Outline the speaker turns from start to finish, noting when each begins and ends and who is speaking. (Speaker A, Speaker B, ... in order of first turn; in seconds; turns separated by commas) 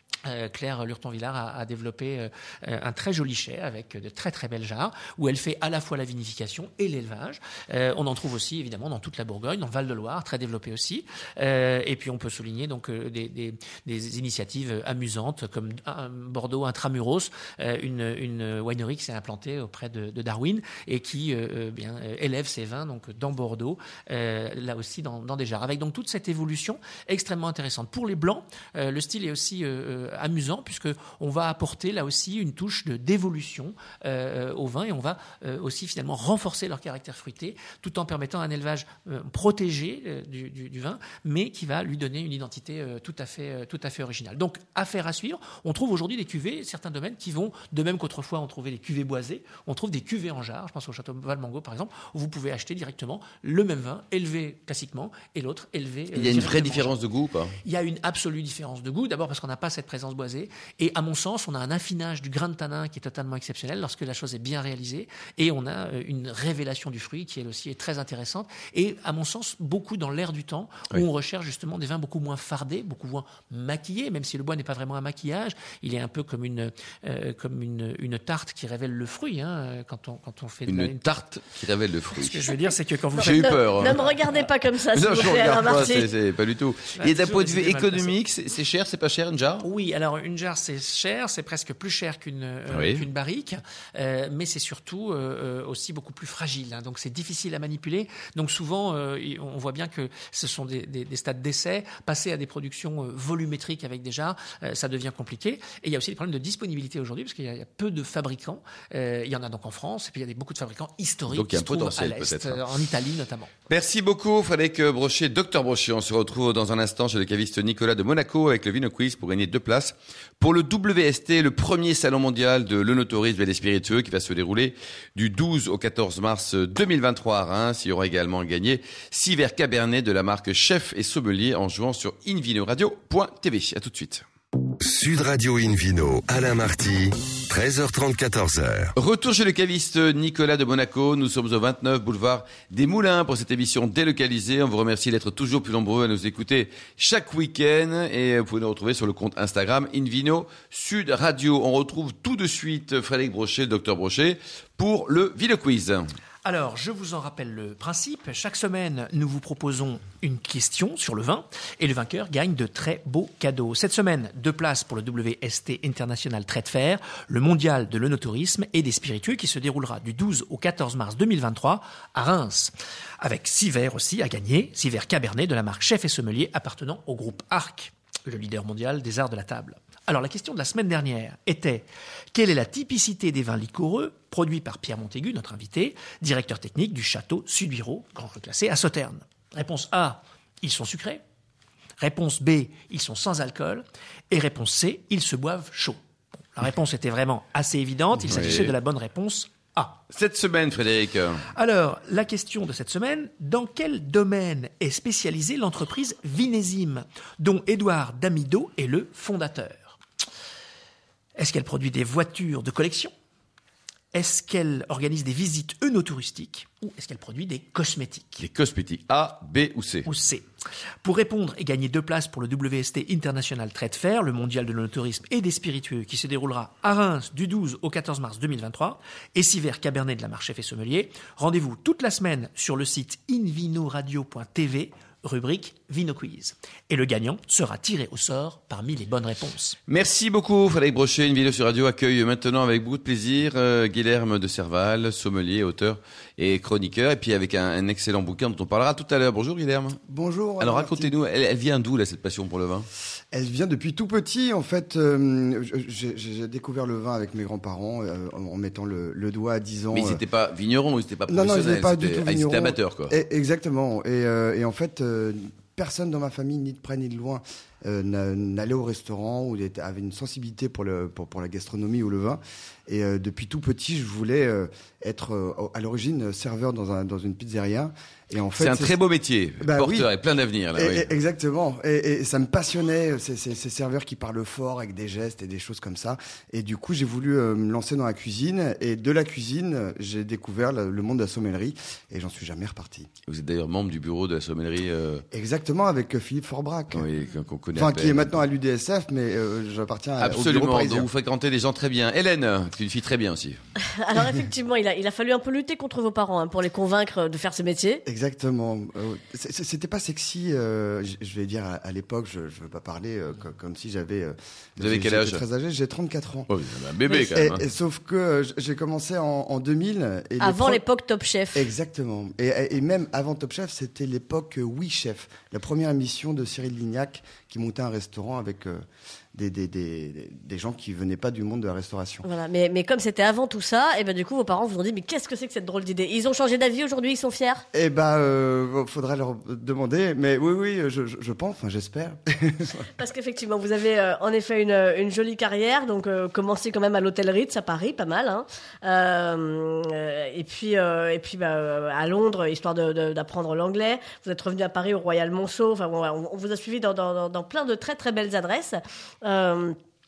Speaker A: 0.3-57.0, Speaker B: 56.1-57.5, Speaker A: 57.6-81.1, Speaker B: 80.7-82.5, Speaker A: 82.2-84.5, Speaker C: 83.1-86.1, Speaker B: 83.2-84.2, Speaker B: 84.9-89.7, Speaker A: 85.2-85.8, Speaker A: 87.0-88.1, Speaker A: 89.6-113.5, Speaker B: 92.7-93.0, Speaker B: 111.3-112.6, Speaker B: 113.7-134.2, Speaker D: 134.8-138.9, Speaker B: 139.0-156.1, Speaker A: 156.4-191.2, Speaker A: 192.0-196.0, Speaker A: 196.6-200.0, Speaker B: 198.3-198.7, Speaker B: 200.1-201.4, Speaker A: 201.5-210.0, Speaker A: 211.4-213.1, Speaker A: 214.1-218.4, Speaker B: 218.4-220.1, Speaker A: 220.1-220.4, Speaker A: 221.0-239.8, Speaker B: 239.9-250.0, Speaker E: 250.1-251.1, Speaker B: 250.6-252.9, Speaker E: 253.3-260.2, Speaker B: 259.9-263.2, Speaker E: 261.3-278.9, Speaker B: 278.6-281.1, Speaker E: 279.6-280.1, Speaker E: 280.8-293.1, Speaker B: 293.3-295.2, Speaker E: 295.3-297.1, Speaker B: 296.9-298.4, Speaker E: 297.8-301.1, Speaker B: 300.2-303.6, Speaker C: 304.0-308.0, Speaker E: 308.1-316.5, Speaker B: 314.8-315.4, Speaker B: 316.5-317.6, Speaker E: 317.2-320.8, Speaker C: 320.4-321.7, Speaker E: 321.5-328.8, Speaker E: 329.3-332.3, Speaker C: 332.2-337.6, Speaker E: 337.7-342.9, Speaker C: 343.0-359.8